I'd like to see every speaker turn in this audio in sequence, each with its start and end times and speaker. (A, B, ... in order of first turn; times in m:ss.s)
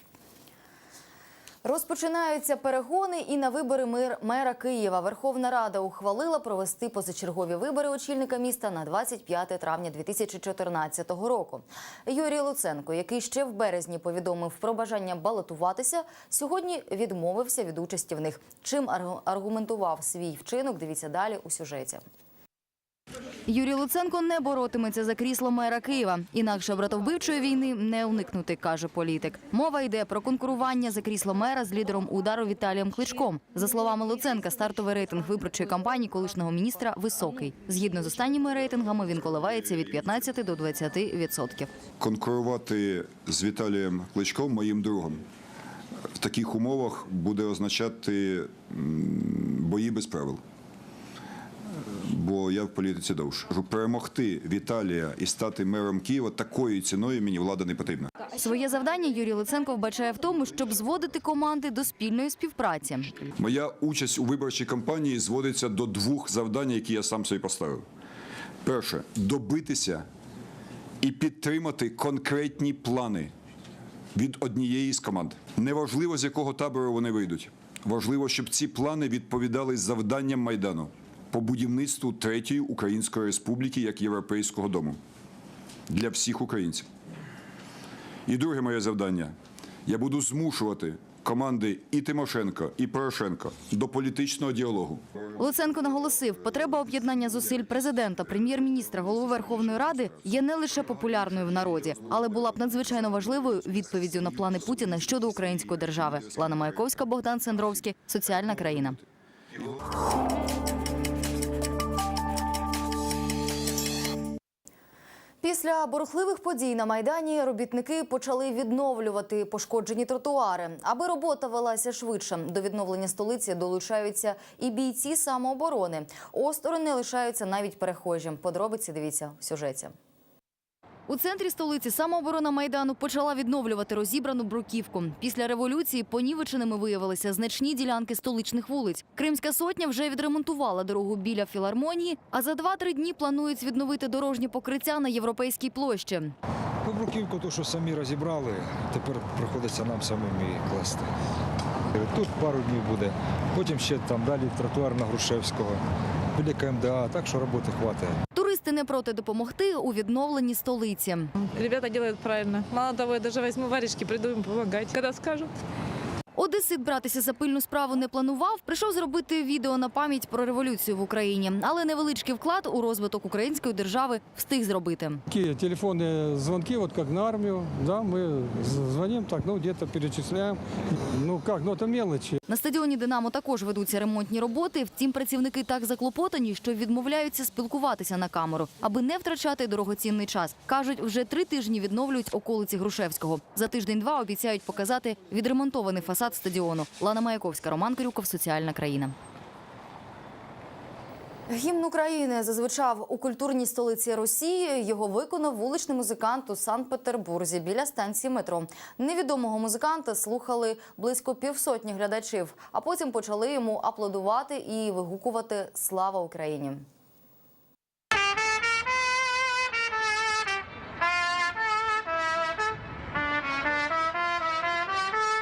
0:01.6-0:22.0 A
0:23.5-0:41.7 A
0:42.0-0:45.2 B
0:46.2-0:50.4 B
0:51.9-0:58.1 B
0:58.3-1:03.2 A
1:03.4-1:07.8 B
1:08.6-1:10.0 B
1:11.0-1:13.3 B
1:14.2-1:25.0 B
1:25.9-1:26.9 B
1:28.3-1:29.3 B
1:29.9-1:35.2 B
1:35.4-1:49.0 A
1:55.4-2:09.9 A
2:11.1-2:26.4 A
2:26.8-2:31.1 C
2:31.9-2:35.8 C
2:36.3-2:38.2 C
2:38.3-2:41.3 A
2:41.4-2:45.5 D
2:46.4-2:55.2 A
2:55.3-3:02.4 E
3:02.5-3:19.2 A
3:21.5-3:36.9 A